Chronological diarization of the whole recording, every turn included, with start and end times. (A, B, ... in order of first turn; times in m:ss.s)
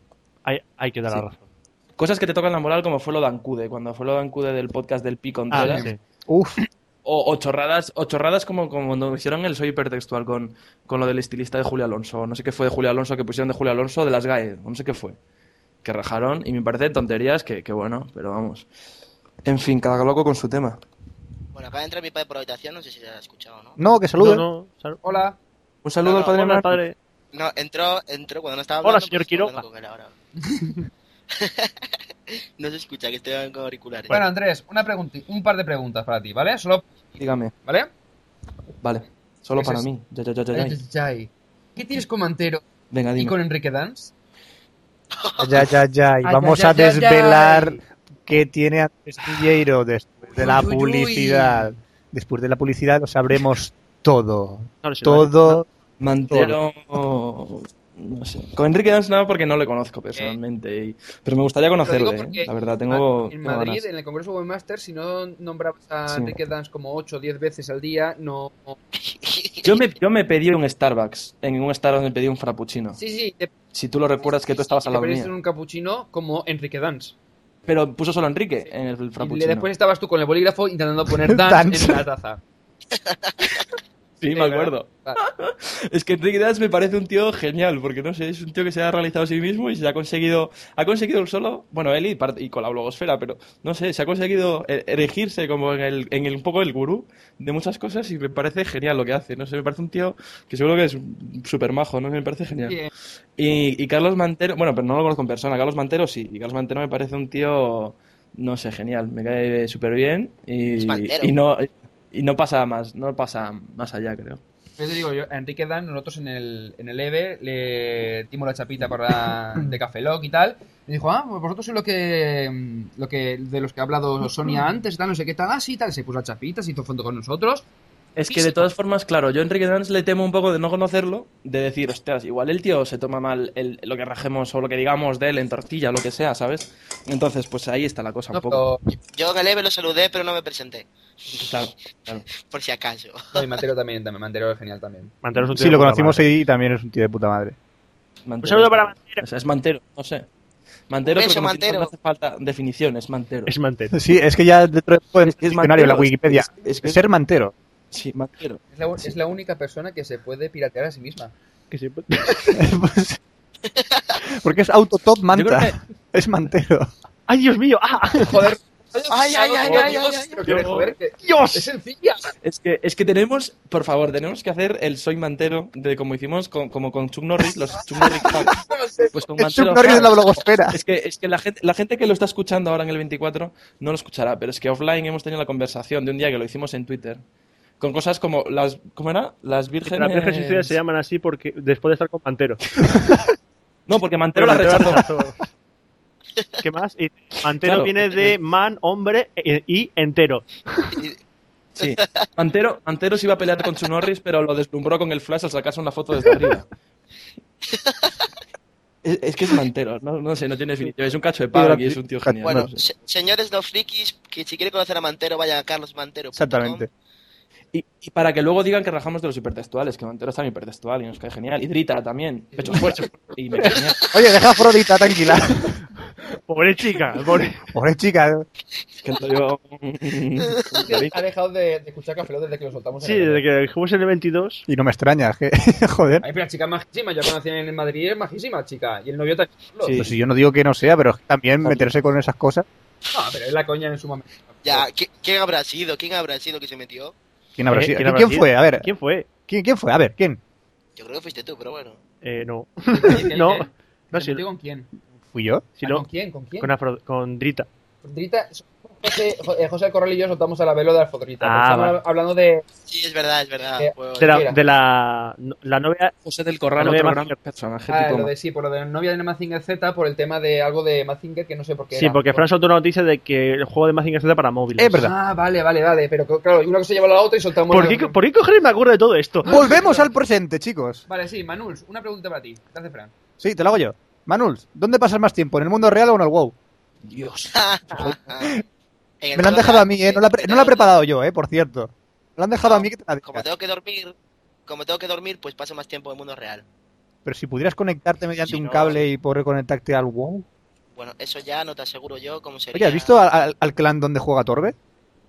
0:00.4-0:01.4 A
0:02.0-0:05.9 B
0:05.5-0:06.0 A
0:05.5-0:05.9 C
0:06.3-0:06.6 D
0:07.0-0:15.2 B
0:15.8-0:18.7 B
0:19.4-0:20.8 B
0:21.5-0:23.8 E
0:23.8-0:24.4 D
0:24.2-0:25.2 A
0:25.0-0:25.4 C
0:25.8-0:26.8 B
0:26.0-0:26.4 E
0:26.3-0:27.0 A
0:27.3-0:30.1 E
0:28.8-0:29.6 A
0:30.4-0:30.7 C
0:31.3-0:31.7 E
0:32.6-0:34.2 E
0:34.1-0:37.0 C
0:37.2-0:37.5 B
0:37.6-0:37.9 C
0:38.8-0:40.8 B
0:39.6-0:39.9 C
0:40.5-0:44.1 C
0:42.9-0:43.4 B
0:45.2-0:45.6 E
0:45.4-0:55.6 D
0:46.2-0:47.8 C
0:50.3-0:51.7 C
0:54.8-0:55.6 A
0:56.0-1:03.8 B
1:01.8-1:08.8 C
1:06.1-1:06.4 B
1:09.0-1:09.8 E
1:09.6-1:13.0 B
1:13.0-1:13.5 C
1:13.7-1:15.3 B
1:14.6-1:17.1 C
1:17.6-1:19.7 B
1:19.2-1:22.4 C
1:21.3-1:22.0 D
1:23.0-1:23.5 E
1:24.2-1:42.8 B
1:24.3-1:25.2 C
1:43.4-1:54.4 B
1:50.7-1:51.3 E
1:54.8-2:07.6 C
2:08.2-2:18.6 B
2:18.3-2:18.8 C
2:19.1-2:21.4 E
2:21.3-2:22.2 B
2:22.3-2:23.4 E
2:23.3-2:25.2 C
2:25.2-2:26.2 A
2:25.5-2:27.6 D
2:28.2-2:30.3 B
2:28.4-2:29.2 A
2:30.9-2:33.5 B
2:31.0-2:31.9 E
2:33.5-2:34.0 A
2:33.9-2:37.5 D
2:35.2-2:37.0 B
2:37.9-2:38.6 B
2:38.7-2:41.3 C
2:41.7-2:42.6 A
2:42.5-2:43.2 D
2:43.8-2:44.0 E
2:44.2-2:46.9 D
2:45.3-2:45.8 B
2:47.3-2:48.4 A
2:48.1-2:52.3 C
2:49.1-2:50.4 E
2:49.6-2:49.9 B
2:50.4-2:50.9 B
2:51.2-2:51.6 A
2:52.4-3:07.2 B
2:58.0-2:59.2 C
2:59.4-3:00.8 D
3:07.8-3:10.7 B
3:09.8-3:12.8 A
3:13.9-3:15.1 B
3:14.3-3:15.4 A
3:16.6-3:20.9 A
3:17.6-3:18.3 B
3:21.8-3:26.7 B
3:21.8-3:22.3 E
3:27.7-3:28.1 E
3:29.0-3:32.8 B
3:31.5-3:32.6 D
3:32.4-3:36.9 E
3:36.3-3:36.9 D
3:37.7-3:44.0 B
3:42.5-3:42.8 C
3:44.1-3:45.8 D
3:46.5-3:47.6 A
3:47.7-3:48.5 D
3:49.0-3:51.2 B
3:50.8-3:53.4 C
3:53.0-3:54.6 A
3:54.7-3:56.2 D
3:56.2-4:00.0 C
3:59.8-4:00.1 B
3:59.9-4:02.6 D
4:03.1-4:04.9 C
4:04.6-4:07.1 E
4:07.6-4:08.9 D
4:07.7-4:09.3 A
4:09.5-4:10.4 D
4:11.0-4:12.0 E
4:12.2-4:14.4 A
4:12.9-4:14.9 C
4:15.3-4:15.7 D
4:15.8-4:16.0 A
4:15.8-4:16.7 C
4:16.6-4:17.7 A
4:18.0-4:22.6 C
4:21.4-4:22.0 A
4:22.9-4:24.5 E
4:23.8-4:24.6 C
4:24.2-4:26.1 A
4:26.2-4:28.3 B
4:26.8-4:27.4 A
4:27.9-4:32.5 C
4:31.9-4:35.0 A
4:34.8-4:35.1 D
4:35.0-4:38.2 C
4:37.7-4:39.6 A
4:39.4-4:40.1 C
4:39.4-4:41.0 D
4:41.1-4:43.1 C
4:43.4-4:46.5 D
4:47.1-4:47.5 B
4:47.5-4:48.6 E
4:47.9-4:48.6 D
4:49.2-4:50.9 E
4:49.3-4:53.4 D
4:52.6-4:54.1 E
4:54.7-4:56.6 E
4:57.2-5:00.4 D
4:58.5-4:59.0 E
5:01.0-5:03.1 E
5:02.7-5:04.7 D